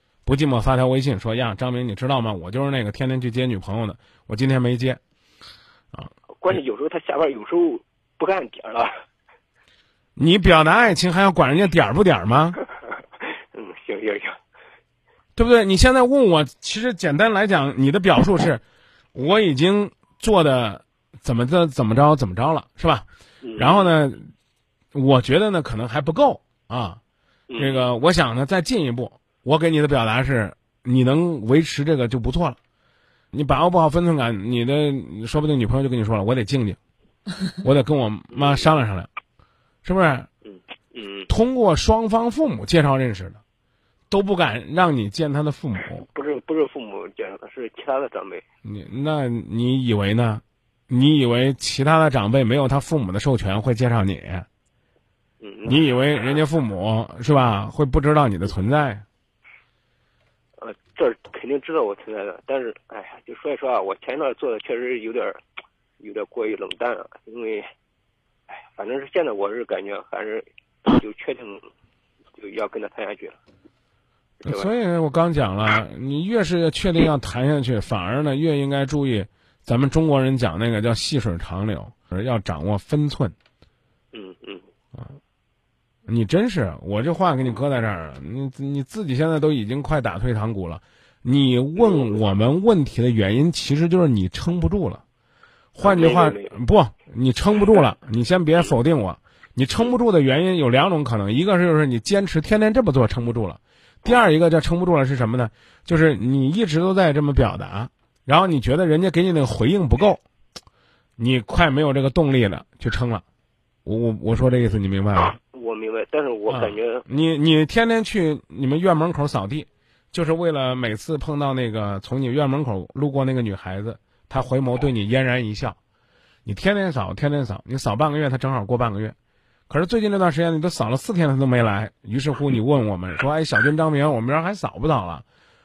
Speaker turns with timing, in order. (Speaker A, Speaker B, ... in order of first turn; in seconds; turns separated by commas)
Speaker A: 0.2-5.0, Speaker B: 6.4-8.9, Speaker A: 10.2-12.6, Speaker B: 13.5-14.4, Speaker A: 15.3-18.6, Speaker A: 19.1-23.1, Speaker B: 23.4-23.9, Speaker A: 23.6-24.3, Speaker A: 24.9-27.0, Speaker B: 27.5-27.9, Speaker A: 27.6-32.6, Speaker A: 33.3-36.8, Speaker A: 37.6-39.1, Speaker B: 38.3-38.8, Speaker A: 39.8-40.3, Speaker B: 40.4-41.3, Speaker A: 41.3-43.4, Speaker A: 44.1-46.0, Speaker B: 46.1-48.4, Speaker A: 48.6-54.5, Speaker B: 55.4-55.8, Speaker A: 55.6-59.0, Speaker B: 60.6-65.4, Speaker B: 66.0-67.7, Speaker B: 68.5-71.7, Speaker B: 72.4-73.4, Speaker B: 74.4-74.7, Speaker A: 74.4-83.3, Speaker B: 84.1-84.6, Speaker A: 86.1-95.0, Speaker B: 91.8-92.2, Speaker A: 95.7-110.2, Speaker B: 95.8-96.5, Speaker A: 111.2-113.2, Speaker A: 113.8-115.4, Speaker B: 114.5-114.8, Speaker B: 115.5-117.0, Speaker A: 116.5-125.8, Speaker A: 126.5-129.1, Speaker A: 129.7-135.2